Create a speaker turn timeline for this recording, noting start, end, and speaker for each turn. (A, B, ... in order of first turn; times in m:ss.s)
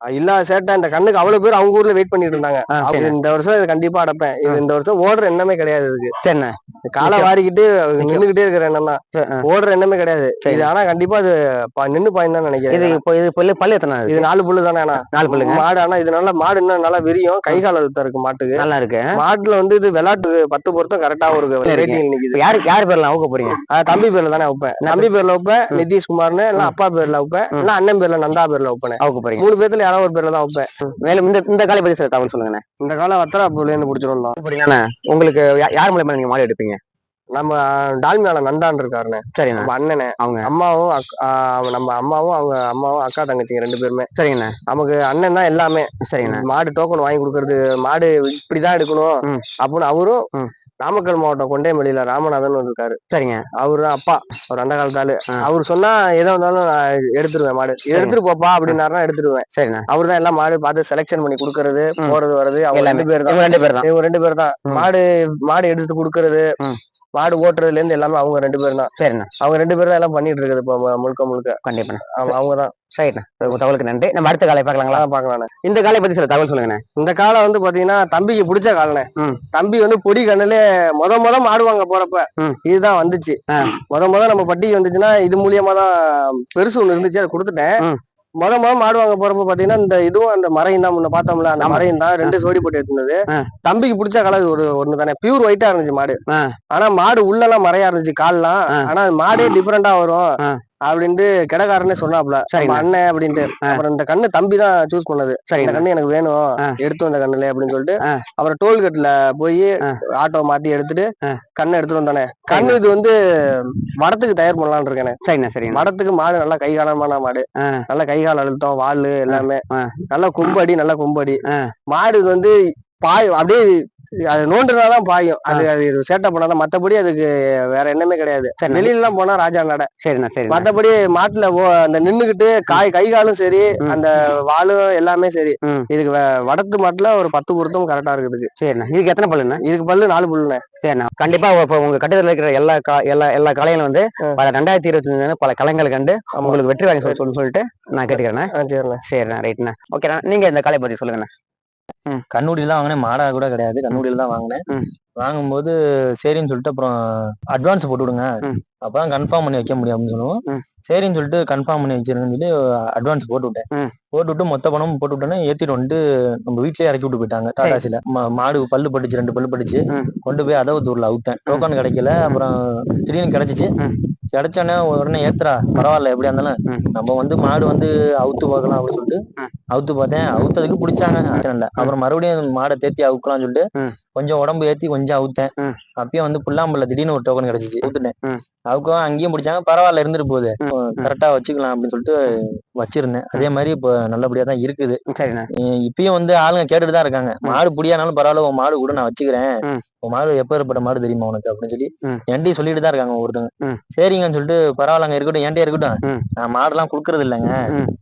0:00.1-0:06.1 A
0:02.7-0:03.2 B
0:06.2-0:07.3 B
0:06.9-0:13.0 A
0:09.2-0:09.4 B
0:12.7-0:14.3 B
0:14.1-0:18.6 A
0:15.1-0:15.6 B
0:18.6-0:19.1 B
0:19.2-0:22.4 A
0:21.6-0:23.6 B
0:23.7-0:30.9 A
0:24.8-0:25.1 B
0:29.0-0:29.5 B
0:31.0-0:32.6 B
0:32.8-0:34.4 A
0:34.4-0:36.8 B
0:37.3-0:44.1 A
0:39.4-0:40.5 B
0:44.2-0:44.6 B
0:44.7-0:49.1 A
0:46.1-0:46.4 B
0:49.6-0:50.2 A
0:50.8-0:53.0 A
0:53.1-0:53.4 B
0:53.6-1:06.5 A
0:57.9-0:58.2 B
0:59.5-0:59.9 B
1:02.7-1:03.9 B
1:07.2-1:11.6 A
1:09.0-1:09.3 B
1:11.6-1:12.4 B
1:12.2-1:12.7 A
1:13.0-1:15.0 B
1:14.9-1:15.5 A
1:15.6-1:16.8 B
1:17.0-1:23.4 A
1:23.9-1:25.9 A
1:26.5-1:27.7 A
1:28.4-1:36.2 A
1:31.6-1:32.4 B
1:36.7-1:40.2 A
1:40.8-1:55.2 A
1:42.5-1:42.9 B
1:45.5-1:45.8 B
1:52.5-1:52.8 B
1:55.2-1:55.9 B
1:55.7-2:01.4 A
1:59.3-1:59.9 B
2:01.9-2:03.7 A
2:04.3-2:09.9 A
2:08.6-2:08.9 B
2:10.0-2:10.7 B
2:10.5-2:18.5 A
2:18.6-2:19.6 B
2:19.6-2:20.6 A
2:20.8-2:28.5 B
2:26.4-2:27.2 A
2:28.1-2:29.0 A
2:29.0-2:31.3 B
2:32.3-2:34.6 C
2:35.2-2:36.9 C
2:37.5-2:38.3 C
2:38.8-2:53.7 C
2:49.9-2:50.2 B
2:54.3-3:03.6 C
3:01.4-3:01.9 B
3:04.2-3:08.1 C
3:08.7-3:12.2 C
3:12.8-3:15.0 C
3:15.1-3:15.5 B
3:15.6-3:19.5 C
3:20.0-3:27.6 C